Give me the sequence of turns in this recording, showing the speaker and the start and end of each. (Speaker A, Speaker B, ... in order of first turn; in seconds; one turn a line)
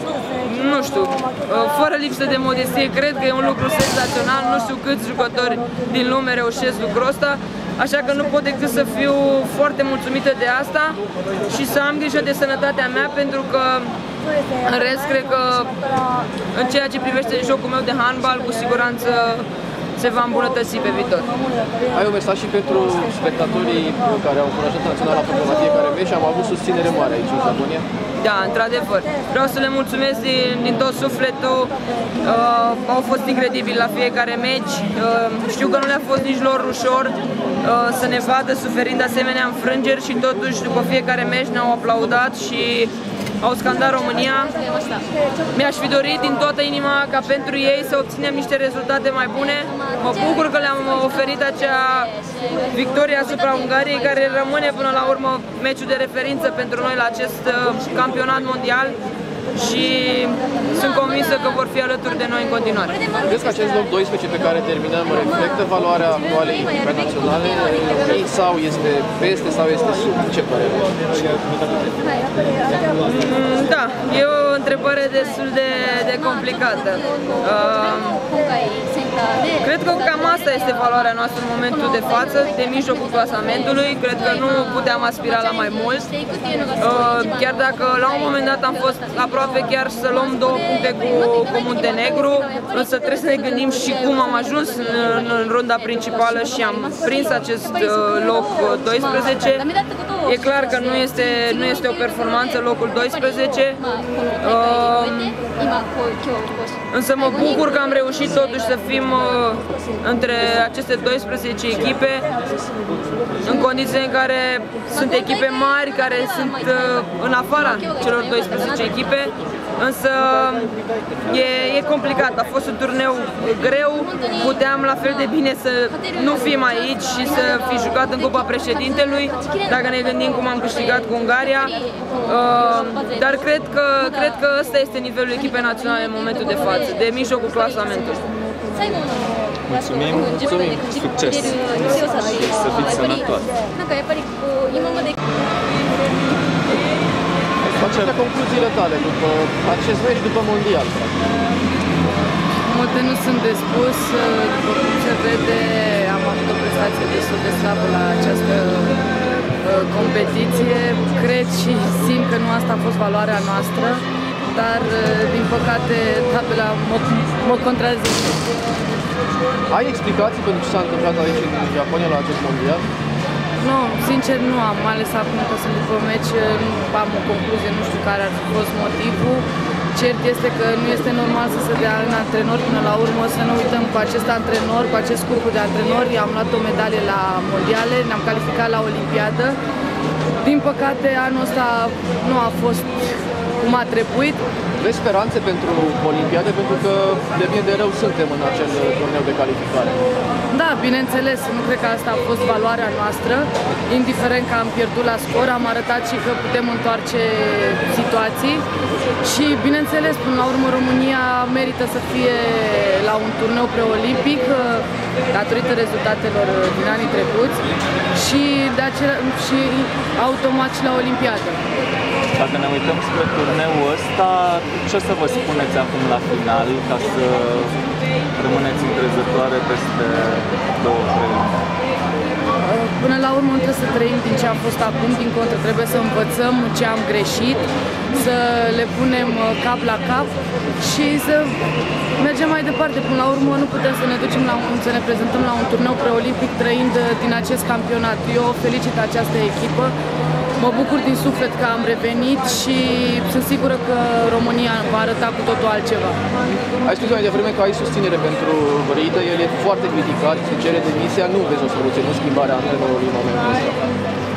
Speaker A: 0.4-13.9
Speaker A: 14.6-15.7
Speaker A: 16.5-19.4
Speaker A: 20.0-21.3
Speaker B: 21.9-27.9
Speaker A: 28.2-44.6
Speaker A: 45.5-59.0
Speaker A: 59.5-63.0
Speaker B: 63.2-71.7
Speaker A: 73.0-78.2
Speaker A: 79.6-86.1
Speaker A: 86.8-99.7
Speaker A: 100.2-103.8
Speaker A: 104.4-105.4
Speaker A: 106.9-112.2
Speaker A: 113.4-120.7
Speaker A: 121.3-138.2
Speaker C: 139.7-143.5
Speaker B: 140.5-140.9
Speaker C: 147.7-148.1
Speaker B: 147.7-151.1
Speaker D: 152.6-159.0
Speaker D: 159.6-168.4
Speaker B: 169.7-172.9
Speaker D: 173.6-189.6
Speaker D: 190.4-194.4
Speaker B: 194.8-200.0
Speaker D: 200.5-208.6
Speaker D: 209.2-217.6
Speaker D: 218.1-221.6
Speaker C: 222.4-227.7
Speaker C: 228.3-231.6
Speaker D: 232.6-241.6
Speaker D: 242.2-249.9
Speaker D: 250.6-256.2
Speaker B: 256.8-263.8